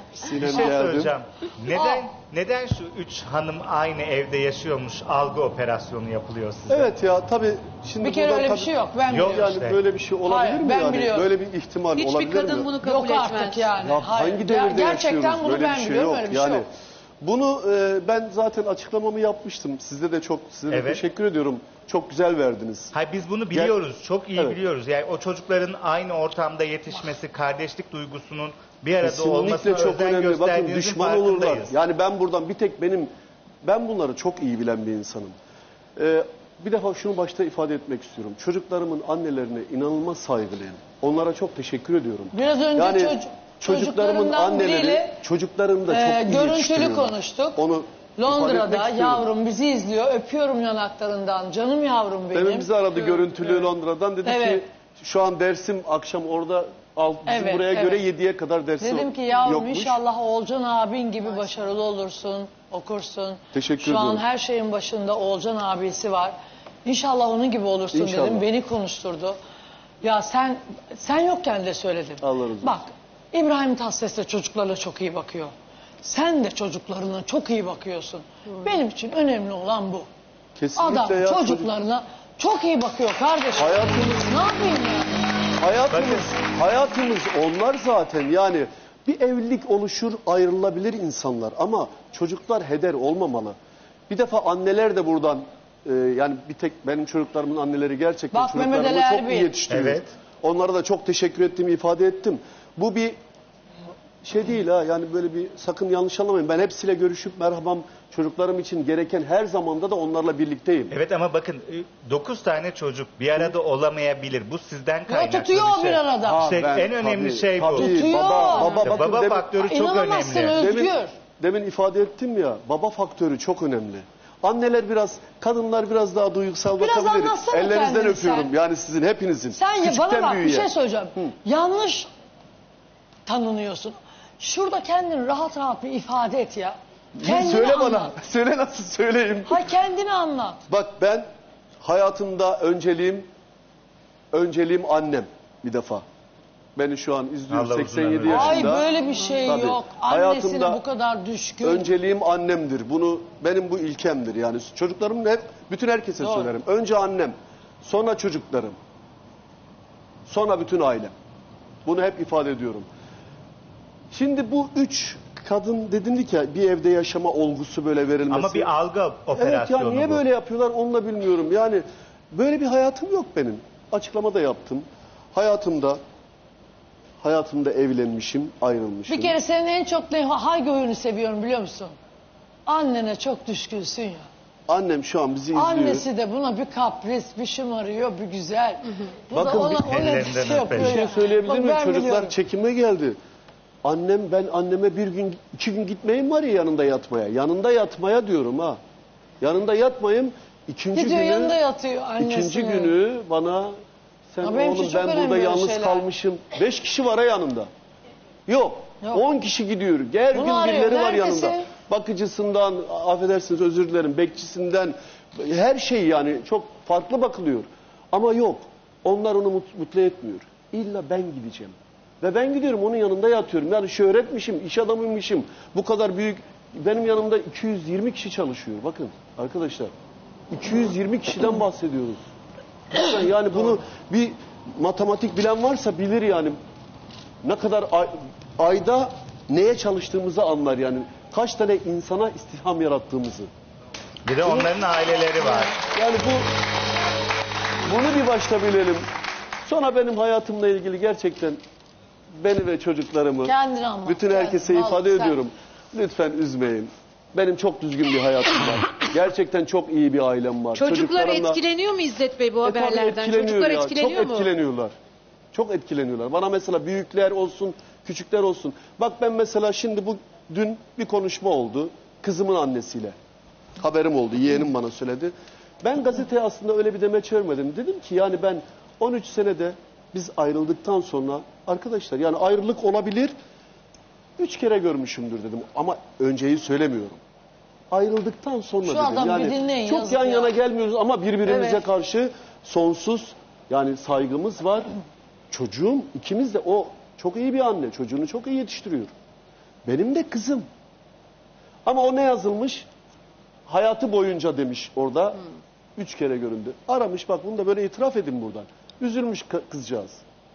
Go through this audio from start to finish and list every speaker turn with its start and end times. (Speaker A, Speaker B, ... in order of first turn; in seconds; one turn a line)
Speaker A: 0.1-1.1
Speaker B: 0.4-6.9
Speaker C: 1.7-2.1
Speaker A: 6.7-12.7
Speaker C: 8.0-9.6
Speaker B: 9.1-9.8
Speaker C: 10.3-11.3
Speaker D: 12.0-13.7
Speaker C: 12.8-16.6
Speaker A: 13.8-16.7
Speaker A: 17.2-22.9
Speaker B: 20.7-21.0
Speaker B: 22.9-31.7
Speaker A: 29.0-33.1
Speaker A: 33.6-35.4
Speaker A: 36.0-49.3
Speaker C: 42.3-45.2
Speaker C: 45.9-47.6
Speaker C: 48.2-52.7
Speaker A: 52.3-60.0
Speaker C: 54.2-54.6
Speaker C: 57.3-58.0
Speaker C: 58.8-69.4
Speaker A: 63.5-64.2
Speaker A: 67.9-68.5
Speaker C: 70.0-80.1
Speaker A: 72.2-72.8
Speaker A: 80.6-81.7
Speaker C: 80.8-85.5
Speaker A: 83.6-84.3
Speaker A: 85.6-93.6
Speaker B: 85.9-86.3
Speaker A: 94.1-103.2
Speaker C: 98.3-99.5
Speaker B: 99.7-100.1
Speaker A: 104.2-110.9
Speaker B: 110.9-120.6
Speaker C: 115.1-116.4
Speaker A: 116.2-119.5
Speaker C: 117.7-118.9
Speaker C: 119.6-121.1
Speaker A: 120.5-131.3
Speaker C: 126.8-128.5
Speaker C: 129.5-132.1
Speaker C: 133.3-138.2
Speaker A: 137.2-139.6
Speaker C: 139.5-140.6
Speaker A: 140.7-141.2
Speaker A: 141.8-143.3
Speaker A: 144.3-146.0
Speaker A: 146.8-148.9
Speaker B: 147.5-148.8
Speaker C: 148.3-151.9
Speaker A: 149.5-150.8
Speaker A: 151.6-158.8
Speaker C: 156.2-156.5
Speaker A: 160.3-161.1
Speaker A: 161.8-162.9
Speaker A: 164.1-168.7
Speaker B: 168.3-170.2
Speaker A: 169.3-176.0
Speaker A: 177.2-179.4
Speaker C: 179.1-181.9
Speaker C: 182.7-184.3
Speaker A: 184.7-186.1
Speaker C: 185.5-192.3
Speaker A: 189.3-189.8
Speaker B: 189.4-191.0
Speaker A: 190.7-193.2
Speaker A: 193.8-198.8
Speaker A: 199.4-201.6
Speaker C: 200.9-203.0
Speaker A: 202.2-203.7
Speaker A: 204.3-207.7
Speaker C: 204.4-206.1
Speaker A: 208.5-229.9
Speaker C: 210.3-211.7
Speaker A: 230.5-232.2
Speaker A: 232.9-236.6
Speaker A: 237.4-243.5
Speaker B: 244.2-245.8
Speaker A: 245.8-246.5
Speaker A: 247.8-249.0
Speaker A: 249.7-251.6
Speaker A: 252.4-261.6
Speaker C: 253.4-255.4
Speaker D: 260.8-264.5
Speaker A: 262.6-264.9
Speaker A: 265.5-273.1
Speaker A: 273.8-283.3
Speaker A: 284.4-287.2
Speaker A: 287.9-294.9
Speaker C: 288.8-290.5
Speaker A: 295.5-299.1
Speaker A: 299.9-300.7
Speaker A: 301.9-302.9
Speaker A: 303.7-305.4
Speaker A: 306.0-310.2